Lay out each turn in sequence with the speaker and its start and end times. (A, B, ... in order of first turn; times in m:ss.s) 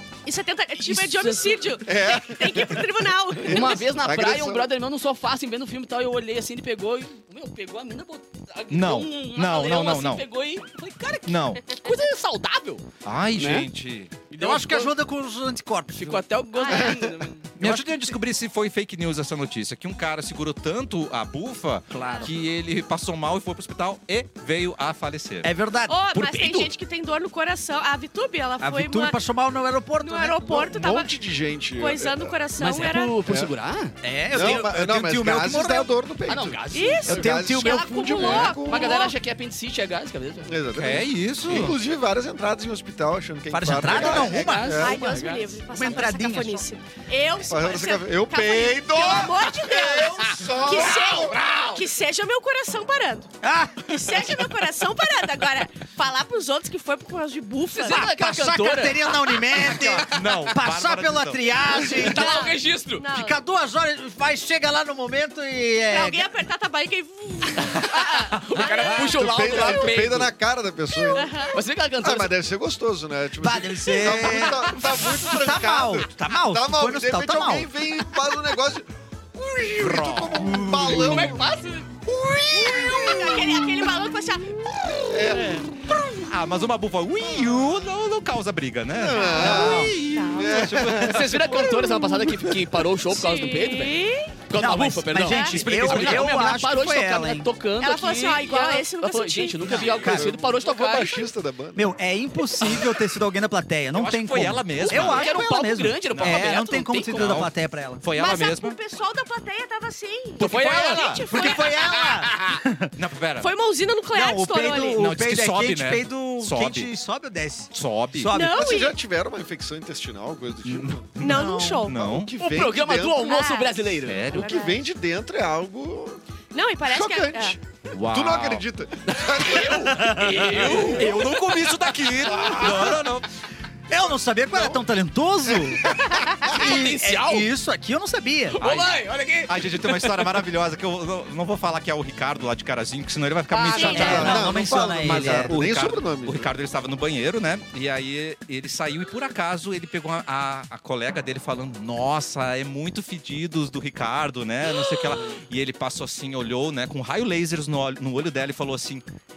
0:00.2-0:03.9 A
0:00.9-0:01.6 B
0:01.8-0:02.9 C
0:03.4-0:04.7 C
0:03.4-0:12.8 B
0:08.7-0:10.2 D
0:11.3-0:11.7 D
0:13.0-0:14.2 D
0:13.4-0:13.7 B
0:14.3-0:15.0 B
0:14.4-0:16.3 E
0:16.0-0:17.5 B
0:16.6-0:17.0 A
0:17.6-0:25.5 D
0:17.6-0:18.2 E
0:21.9-0:22.3 E
0:22.0-0:22.3 A
0:25.4-0:26.7 E
0:25.9-0:29.2 A
0:28.6-0:30.6 E
0:30.0-0:31.2 A
0:30.5-0:32.4 C
0:31.8-0:33.2 A
0:32.6-0:34.6 B
0:34.0-0:35.9 E
0:34.3-0:39.0 C
0:36.3-0:37.4 B
0:36.7-0:39.2 A
0:37.1-0:38.4 E
0:38.1-0:40.6 B
0:40.5-0:45.0 C
0:40.7-0:41.8 D
0:43.5-0:46.7 E
0:43.8-0:45.5 B
0:44.8-0:53.3 A
0:47.4-0:51.5 C
0:50.6-0:51.8 B
0:53.4-0:54.3 E
0:53.8-0:58.0 A
0:57.7-0:59.9 B
0:57.9-1:02.4 E
0:59.7-1:01.5 D
1:01.8-1:03.0 B
1:02.0-1:03.4 A
1:03.1-1:06.3 E
1:05.9-1:10.0 A
1:07.9-1:10.3 B
1:08.9-1:11.5 C
1:10.9-1:11.6 A
1:11.4-1:12.4 B
1:12.0-1:21.5 C
1:13.4-1:17.7 E
1:19.8-1:20.5 D
1:20.3-1:21.4 E
1:20.8-1:21.9 B
1:22.0-1:23.8 C
1:22.5-1:25.4 A
1:25.0-1:25.8 C
1:25.5-1:31.7 D
1:28.9-1:32.5 C
1:29.1-1:30.7 A
1:29.4-1:30.0 E
1:31.0-1:41.3 B
1:33.1-1:34.3 A
1:34.5-1:37.5 E
1:35.3-1:35.6 A
1:35.6-1:36.3 D
1:37.8-1:40.0 A
1:39.7-1:41.9 C
1:39.8-1:40.4 E
1:41.8-1:48.0 E
1:43.9-1:45.4 D
1:44.8-1:47.5 B
1:46.1-1:46.6 D
1:47.1-1:48.8 D
1:48.1-1:51.8 A
1:50.4-1:51.4 D
1:50.4-1:52.6 B
1:51.3-1:52.9 E
1:53.0-1:53.5 D
1:53.4-1:55.0 A
1:54.1-1:58.7 E
1:55.0-1:56.9 D
1:57.7-1:58.3 D
1:58.3-1:59.0 A
1:58.4-2:01.1 C
2:00.7-2:02.3 D
2:01.2-2:02.0 A
2:01.2-2:01.9 E
2:01.9-2:03.3 C
2:02.4-2:04.4 B
2:03.1-2:04.8 A
2:04.0-2:04.5 D
2:04.3-2:06.2 C
2:06.5-2:07.6 A
2:06.8-2:11.2 C
2:07.9-2:08.7 D
2:09.3-2:11.7 B
2:10.5-2:13.3 D
2:12.4-2:12.8 C
2:12.5-2:13.0 E
2:13.9-2:18.6 E
2:15.5-2:16.7 C
2:16.4-2:17.5 B
2:18.5-2:20.4 B
2:18.6-2:39.0 D
2:23.5-2:24.4 B
2:23.6-2:24.4 A
2:23.9-2:26.5 C
2:23.9-2:25.6 E